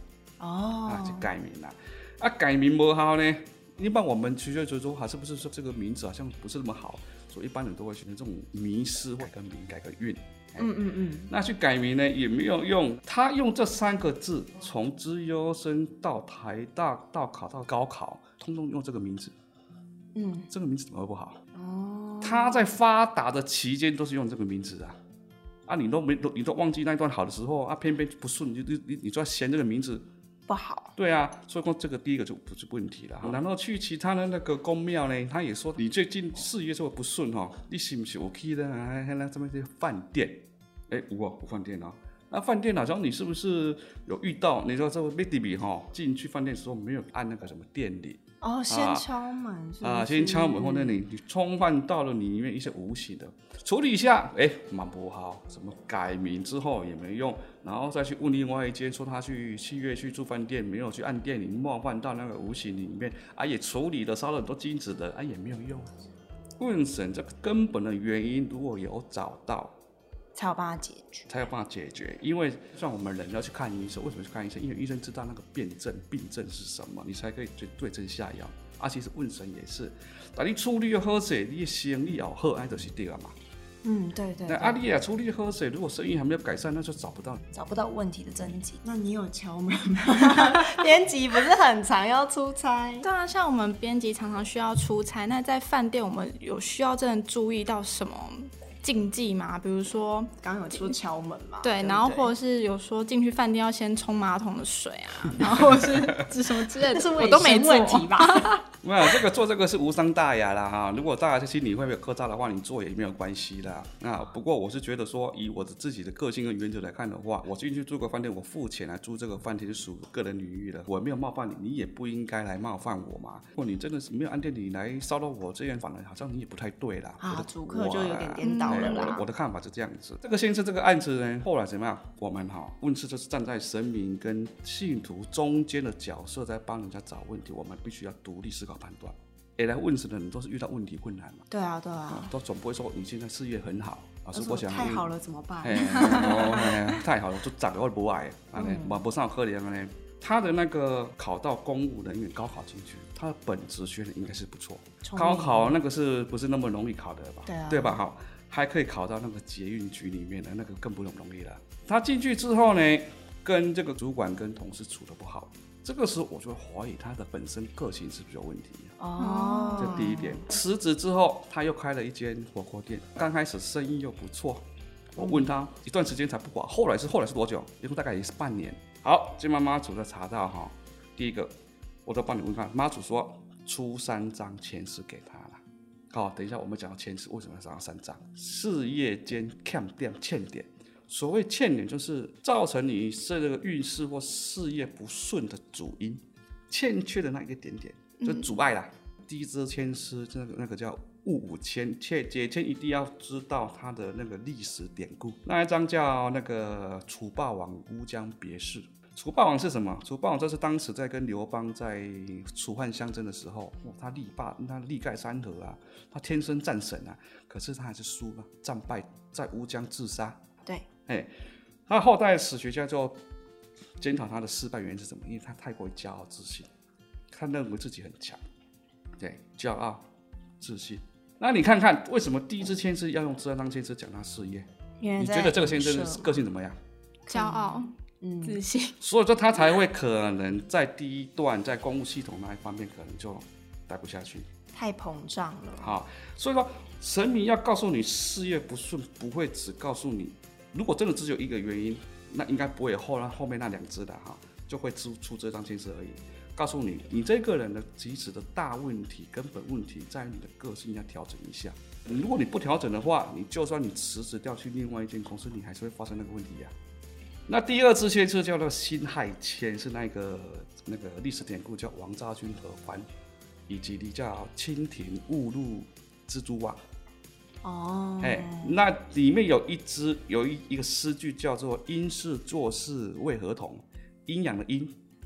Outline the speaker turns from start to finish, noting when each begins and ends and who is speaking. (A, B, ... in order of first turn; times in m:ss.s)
0:00.4-0:01.3 A
0:00.9-0:10.7 B
0:10.6-0:11.3 A
0:11.3-0:19.3 B
0:20.1-0:20.5 A
0:20.5-0:21.4 B
0:21.5-0:22.7 A
0:22.2-0:25.0 B
0:25.7-0:30.0 B
0:30.5-0:30.9 A
0:31.0-0:49.1 B
0:48.4-0:51.0 A
0:49.8-1:05.9 B
1:06.6-1:09.7 B
1:10.3-1:11.3 A
1:11.3-1:23.3 B
1:23.8-1:24.8 A
1:24.5-1:27.4 B
1:27.5-1:33.1 A
1:33.0-1:41.0 C
1:40.4-1:42.3 A
1:41.6-1:48.6 C
1:46.8-1:48.6 A
1:48.8-2:21.4 B
2:07.2-2:09.2 A
2:08.4-2:09.1 C
2:21.5-2:22.3 A
2:22.1-2:25.1 B
2:24.3-2:27.0 A
2:25.6-2:48.9 B
2:28.5-2:29.0 A
2:35.0-2:35.8 A
2:37.4-2:38.0 A
2:49.0-2:50.4 A
2:49.2-2:50.1 C
2:49.8-2:54.6 B
2:55.2-3:01.5 B
2:55.2-2:55.4 A
3:02.0-3:05.6 B
3:06.1-3:40.4 B
3:18.2-3:18.5 C
3:41.9-3:43.2 B
3:44.0-3:46.7 B
3:47.3-3:48.4 B
3:49.2-3:50.0 B
3:50.6-3:56.8 B
3:55.0-3:56.3 A
3:57.3-3:58.6 A
3:57.3-3:57.9 C
3:58.4-3:59.0 C
3:59.0-4:04.5 B
4:04.7-4:06.0 A
4:05.8-4:26.7 B
4:27.5-4:33.0 B
4:33.7-4:36.8 B
4:37.6-4:38.8 A
4:38.2-4:44.9 B